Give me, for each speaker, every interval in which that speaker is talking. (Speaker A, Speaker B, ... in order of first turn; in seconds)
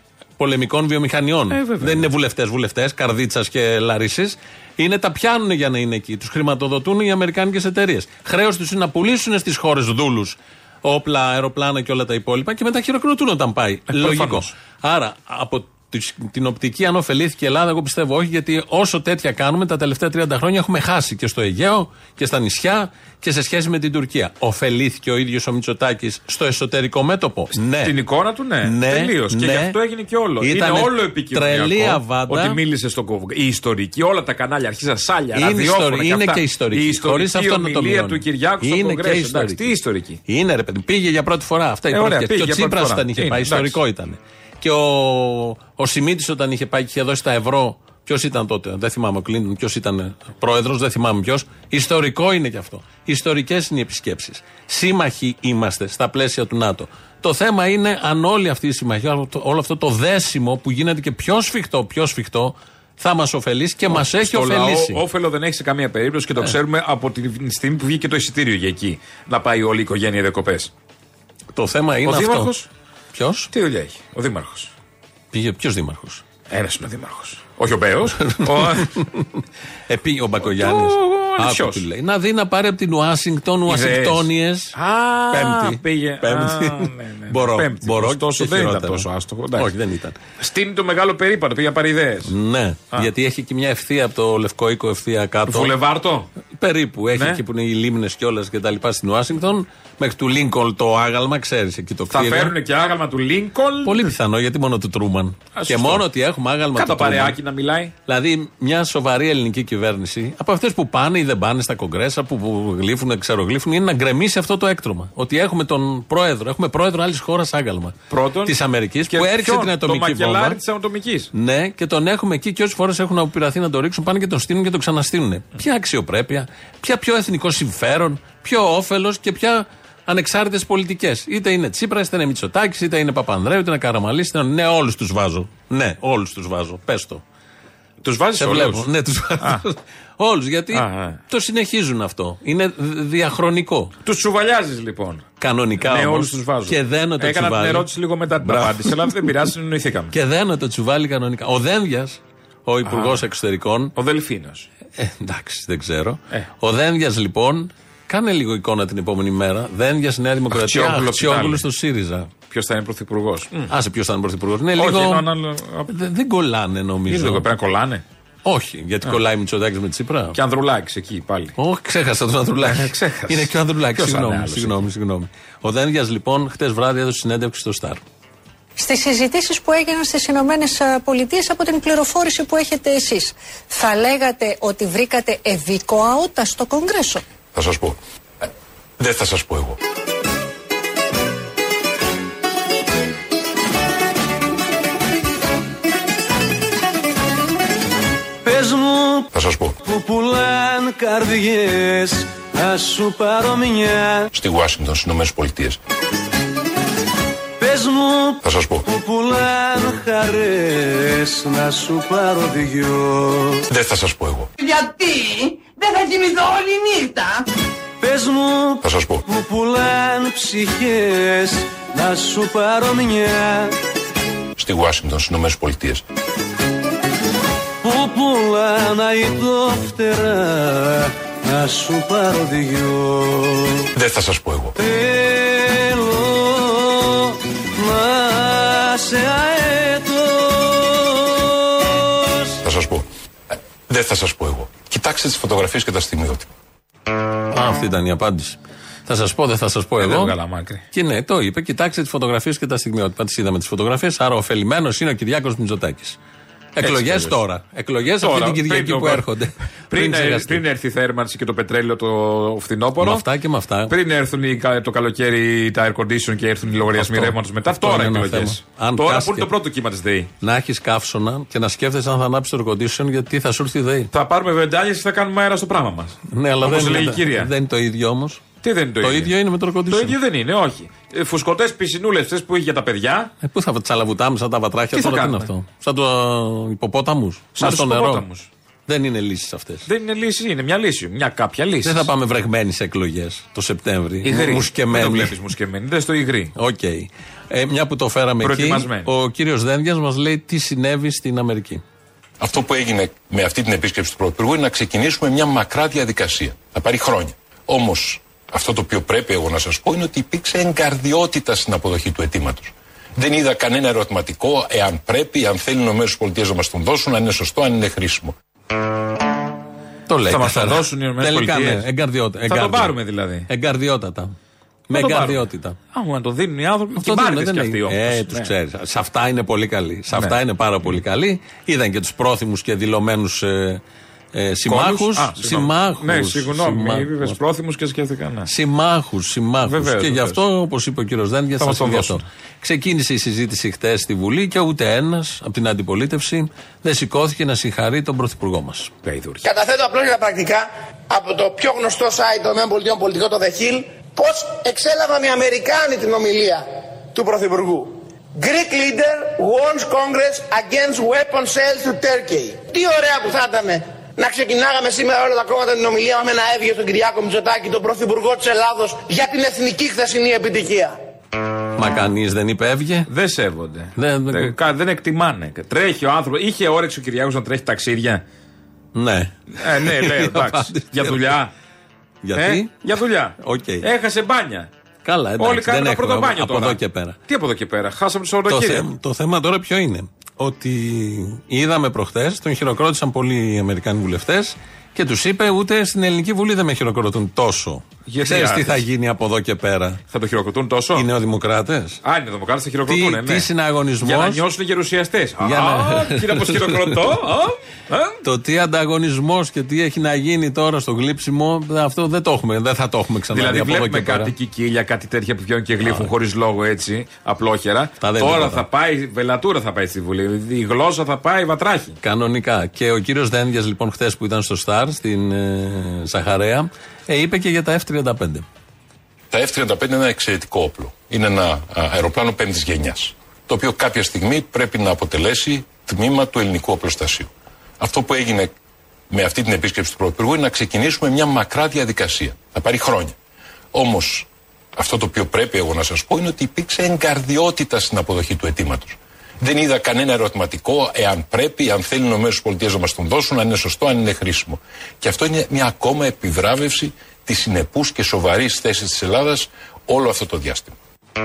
Speaker A: 0.4-28.0, 28.6-29.8, 30.4-32.6, 35.4-39.8, 40.3-65.0, 71.5-72.5, 73.1-73.5, 75.3-76.2, 78.2-79.4, 79.9-84.8, 85.3-90.2, 92.3-95.7, 96.6-102.5, 103.8-107.4, 108.1-120.6, 121.3-137.2, 138.4-143.9, 145.4-147.9, 148.4-149.3, 150.1-153.9, 155.0-162.3, 163.7-165.3, 165.9-167.5, 168.4-170.4, 171.6-178.0, 247.5-250.3, 250.9-256.2, 256.8-260.6, 263.0-263.9, 267.0-269.5, 270.4-274.1, 276.3-278.4, 279.0-280.2, 283.4-288.3, 288.9-289.9, 291.8-295.4, 296.6-301.8, 320.1-324.3, 324.9-325.8, 327.0-333.8, 334.3-337.4, 338.5-348.9, 371.8-373.1, 374.0-374.5, 378.9-381.4, 382.2-383.9, 385.0-387.2, 388.5-400.0, 400.9-402.0, 402.9-404.4, 405.4-407.2, 408.2-414.3, 415.8-416.1, 418.0-418.6, 422.0-428.5
Speaker B: 1.5-2.1, 13.9-14.5, 27.8-40.2, 41.9-43.8, 63.9-70.7, 72.0-72.7, 73.5-74.7, 76.5-78.9, 80.5-81.9, 83.7-89.7, 90.4-92.3, 95.5-96.3, 97.2-97.4, 102.1-104.1, 105.5-106.0, 106.8-107.9, 118.1-118.6, 119.1-121.3, 138.0-138.9, 140.7-141.2, 144.1-145.3, 145.8-150.1, 152.8-153.2, 154.0-154.7, 160.5-161.7, 162.5-163.7, 164.8-165.9, 167.1-168.0, 170.3-171.6, 172.6-174.8, 250.0-250.8, 256.8-257.4, 258.2-259.3, 259.9-263.2, 263.9-270.3, 274.1-277.5, 278.6-279.3, 279.9-283.3, 284.9-285.5, 287.6-288.5, 289.9-292.1, 294.2-296.5, 298.4-299.1, 320.3-321.9, 322.5-323.5, 324.9-328.5, 334.7-338.5, 339.7-340.4, 341.6-342.2, 349.0-349.5, 373.1-378.2, 379.6-381.5, 382.4-384.7, 385.4-388.9, 398.1-398.8, 400.1-401.1, 402.0-403.5, 404.0-408.2, 413.3-422.0
Speaker C: 178.8-187.2
Speaker D: 187.5-188.5, 189.0-189.8, 199.3-199.8, 204.3-205.8, 208.4-208.9, 213.7-214.5, 218.8-219.2, 224.6-226.0, 233.9-234.8, 242.6-243.1, 243.9-246.5, 302.4-318.3, 429.3-438.5, 439.1-443.1, 443.7-460.7
Speaker E: 198.4-199.3, 199.8-204.3, 207.6-213.6, 218.0-223.8, 227.8-233.9, 234.8-242.6
Speaker F: 214.6-217.4
Speaker G: 349.4-370.9